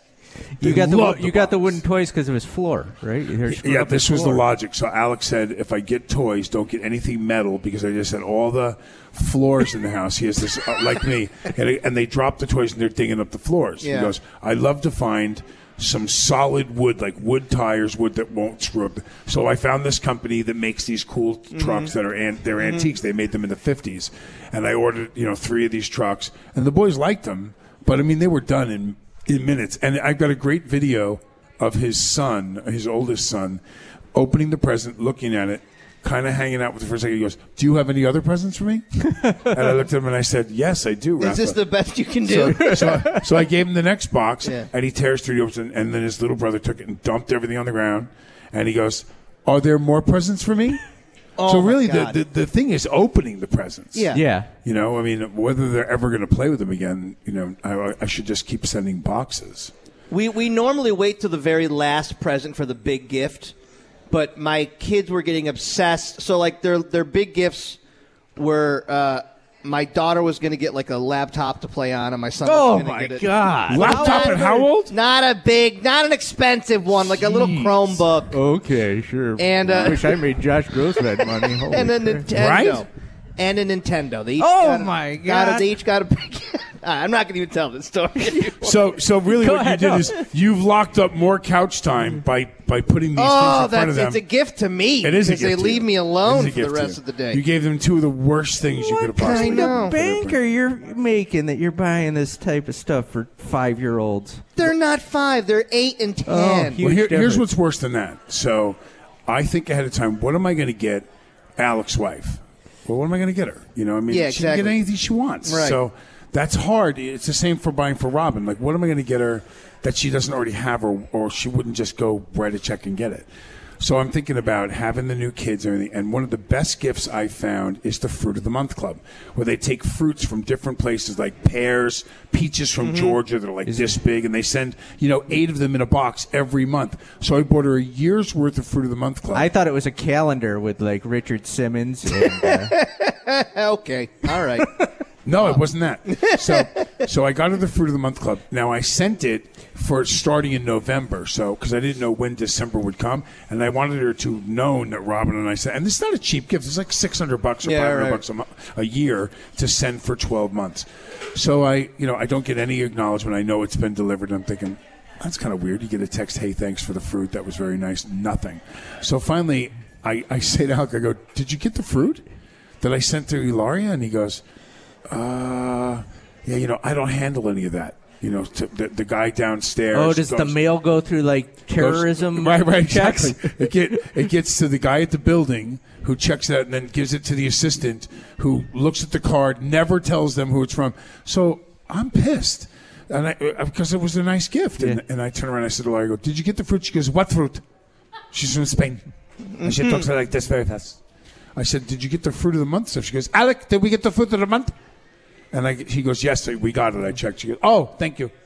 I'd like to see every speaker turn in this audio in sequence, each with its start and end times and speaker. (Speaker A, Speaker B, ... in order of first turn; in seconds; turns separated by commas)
Speaker A: 0.6-4.4, Speaker B: 0.6-1.8, Speaker B: 3.5-33.6, Speaker C: 13.8-14.1, Speaker C: 21.5-21.9, Speaker C: 22.6-22.9, Speaker B: 34.1-41.6, Speaker A: 39.1-39.6, Speaker C: 41.2-43.1, Speaker B: 42.2-50.8, Speaker A: 42.4-43.2, Speaker C: 51.4-52.2, Speaker B: 51.5-59.7, Speaker C: 53.9-54.2, Speaker A: 54.1-54.5, Speaker C: 60.1-63.5, Speaker C: 64.1-67.8, Speaker C: 68.3-78.3, Speaker A: 72.4-74.4, Speaker B: 73.7-74.9, Speaker B: 77.0-78.0, Speaker A: 78.3-82.3, Speaker C: 79.4-80.2, Speaker C: 81.7-88.7, Speaker B: 82.3-82.8, Speaker A: 84.4-85.7, Speaker B: 88.6-94.2, Speaker A: 89.3-90.2, Speaker C: 93.2-97.4, Speaker B: 95.0-100.4, Speaker C: 99.1-100.0, Speaker A: 99.2-104.5, Speaker C: 104.6-106.8, Speaker A: 106.2-107.5, Speaker B: 106.8-111.0, Speaker B: 111.6-123.3, Speaker C: 114.1-114.8, Speaker C: 115.5-115.8, Speaker B: 123.8-139.5, Speaker C: 132.8-133.1, Speaker A: 133.7-134.0, Speaker A: 139.3-142.7, Speaker C: 142.2-144.9, Speaker B: 145.2-172.2, Speaker C: 145.4-146.7, Speaker C: 157.6-158.2, Speaker B: 172.8-174.4, Speaker B: 175.1-180.6, Speaker A: 179.9-184.1, Speaker B: 181.8-197.6, Speaker B: 198.3-199.0, Speaker C: 199.6-200.1, Speaker B: 199.6-201.0, Speaker B: 201.6-204.7, Speaker B: 205.5-208.3